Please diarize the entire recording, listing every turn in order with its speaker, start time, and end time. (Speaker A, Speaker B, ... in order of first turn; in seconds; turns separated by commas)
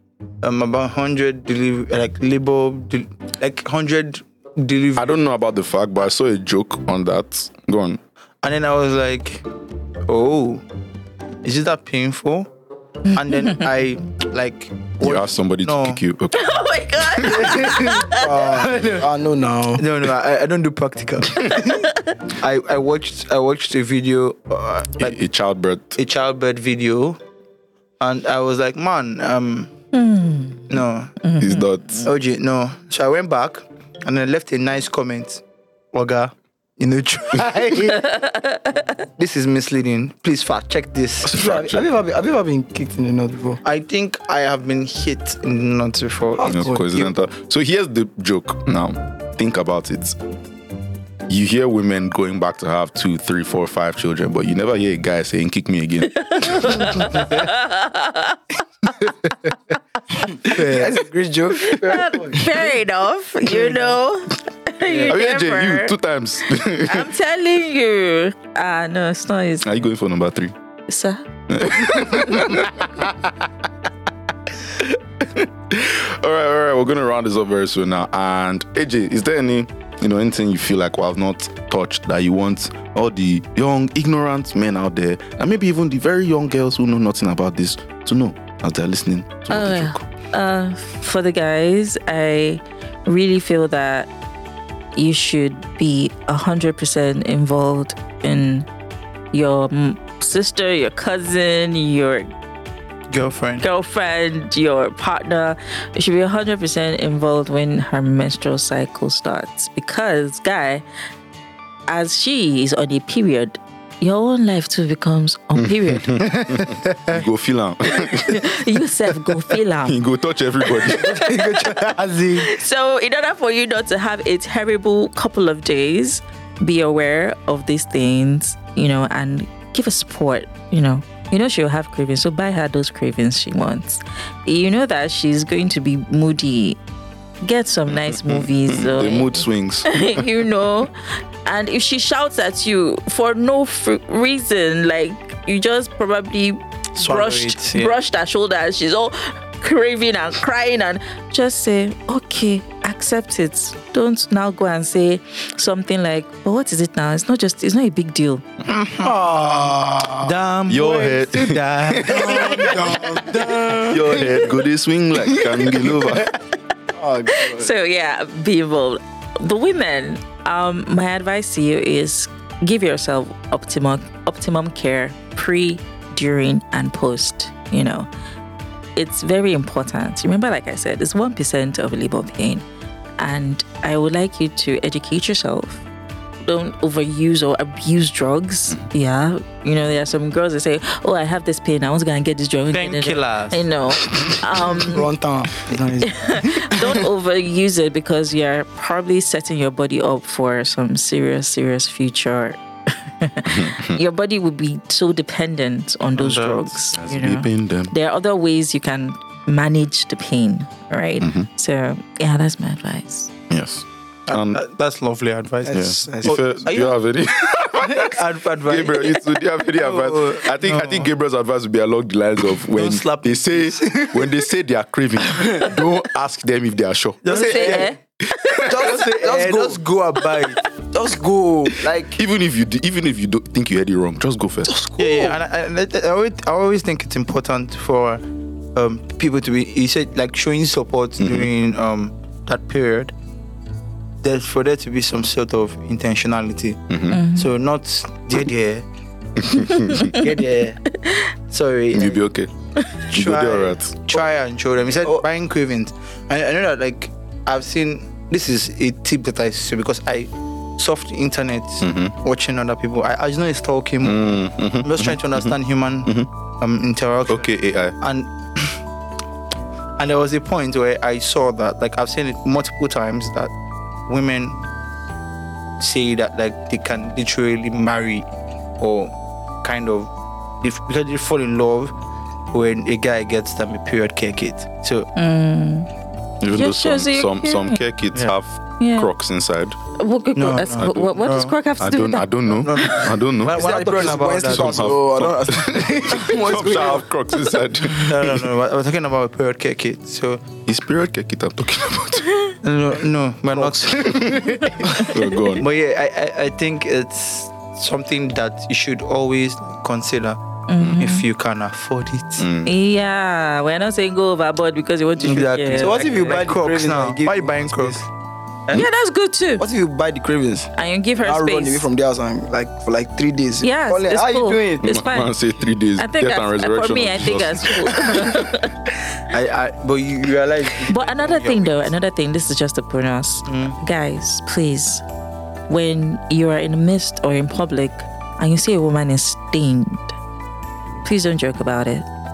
Speaker A: 0.4-5.2, Speaker B: 5.0-8.0, Speaker A: 8.4-9.4, Speaker A: 10.1-10.6, Speaker A: 11.4-12.5, Speaker A: 13.1-16.0, Speaker B: 15.0-16.5, Speaker C: 16.3-18.3, Speaker A: 17.4-19.1, Speaker D: 17.6-19.9, Speaker A: 19.8-25.2, Speaker C: 21.6-22.1, Speaker B: 25.0-26.0, Speaker A: 25.9-27.2, Speaker A: 28.0-29.7, Speaker C: 29.9-30.7, Speaker A: 30.7-31.2, Speaker C: 31.2-32.1, Speaker B: 31.4-32.1, Speaker A: 32.0-35.4, Speaker A: 35.9-38.2, Speaker C: 38.0-38.8, Speaker A: 39.2-41.4, Speaker B: 41.2-41.8, Speaker D: 41.2-43.6, Speaker A: 43.6-46.5, Speaker D: 46.3-47.1, Speaker B: 46.5-50.2, Speaker B: 51.3-57.0, Speaker C: 56.2-58.5, Speaker A: 59.0-59.5, Speaker D: 60.3-62.5, Speaker A: 60.4-61.0, Speaker C: 61.5-66.0, Speaker A: 61.8-62.1, Speaker A: 64.8-65.1, Speaker B: 65.0-67.1, Speaker C: 66.6-69.7, Speaker B: 69.6-70.5, Speaker C: 70.9-71.2, Speaker B: 71.5-73.1, Speaker B: 74.8-90.0, Speaker C: 89.5-94.1, Speaker C: 94.9-98.7, Speaker C: 99.3-102.3, Speaker A: 103.1-103.7, Speaker C: 103.6-110.8, Speaker C: 111.9-116.3, Speaker B: 115.6-118.5, Speaker A: 116.2-117.2, Speaker C: 118.0-120.0, Speaker B: 119.8-121.3, Speaker C: 120.7-136.8, Speaker A: 121.0-122.5, Speaker C: 137.4-158.4, Speaker B: 137.9-139.9, Speaker A: 147.0-147.9, Speaker A: 158.7-159.1, Speaker D: 159.0-160.3, Speaker A: 160.2-163.8, Speaker B: 160.7-162.7, Speaker D: 162.0-164.5, Speaker B: 163.7-166.3, Speaker D: 165.5-165.9, Speaker D: 166.9-167.7, Speaker C: 167.3-178.1, Speaker C: 178.9-182.6, Speaker C: 183.2-185.8, Speaker C: 186.4-195.1, Speaker A: 192.7-193.6, Speaker D: 194.7-197.0, Speaker C: 196.0-213.3, Speaker B: 203.5-204.0, Speaker A: 206.2-206.7, Speaker B: 206.9-207.9, Speaker B: 211.2-211.5, Speaker B: 213.5-214.6, Speaker A: 214.3-217.0, Speaker D: 215.6-216.4, Speaker B: 215.7-227.9, Speaker A: 217.8-221.1, Speaker A: 222.5-224.3, Speaker A: 227.2-228.0, Speaker C: 227.2-228.7, Speaker B: 228.4-228.7, Speaker A: 228.6-230.6, Speaker D: 228.6-229.8, Speaker D: 230.9-232.2, Speaker B: 232.2-234.7, Speaker D: 234.6-235.4, Speaker A: 235.0-238.2, Speaker A: 238.7-243.1, Speaker B: 241.2-241.5, Speaker A: 244.2-248.8, Speaker B: 246.9-247.2, Speaker C: 247.1-247.5, Speaker B: 249.4-250.2, Speaker A: 250.1-250.8, Speaker C: 251.0-251.3, Speaker A: 251.5-252.2, Speaker B: 251.9-252.5, Speaker A: 253.1-268.8, Speaker B: 253.1-254.0, Speaker B: 261.8-262.1, Speaker B: 264.0-266.3, Speaker B: 267.3-267.9, Speaker A: 270.0-273.5, Speaker A: 274.1-274.6, Speaker A: 275.8-278.2, Speaker A: 278.8-280.1, Speaker A: 280.6-281.9, Speaker A: 282.5-285.1, Speaker C: 285.1-285.9, Speaker B: 286.4-289.8, Speaker C: 286.5-287.8, Speaker C: 288.8-289.1, Speaker C: 290.0-292.3, Speaker A: 290.4-291.6, Speaker B: 290.8-291.1, Speaker B: 291.8-293.8, Speaker A: 292.6-294.9, Speaker D: 293.5-297.1, Speaker B: 294.4-298.3, Speaker A: 297.9-300.4, Speaker B: 300.6-302.5, Speaker A: 302.6-310.4, Speaker D: 303.5-304.6, Speaker B: 304.1-305.6, Speaker C: 310.7-311.2, Speaker A: 311.0-312.5, Speaker B: 312.4-312.7, Speaker C: 312.6-316.4, Speaker A: 315.2-318.1, Speaker D: 315.7-318.0, Speaker C: 318.7-319.7, Speaker D: 319.6-320.7, Speaker C: 320.7-321.9, Speaker D: 321.2-324.9, Speaker C: 323.6-325.3, Speaker B: 324.8-328.4, Speaker C: 326.0-328.7, Speaker A: 329.3-331.9, Speaker C: 330.9-335.0, Speaker A: 333.5-333.8, Speaker C: 335.7-340.1, Speaker C: 341.0-342.1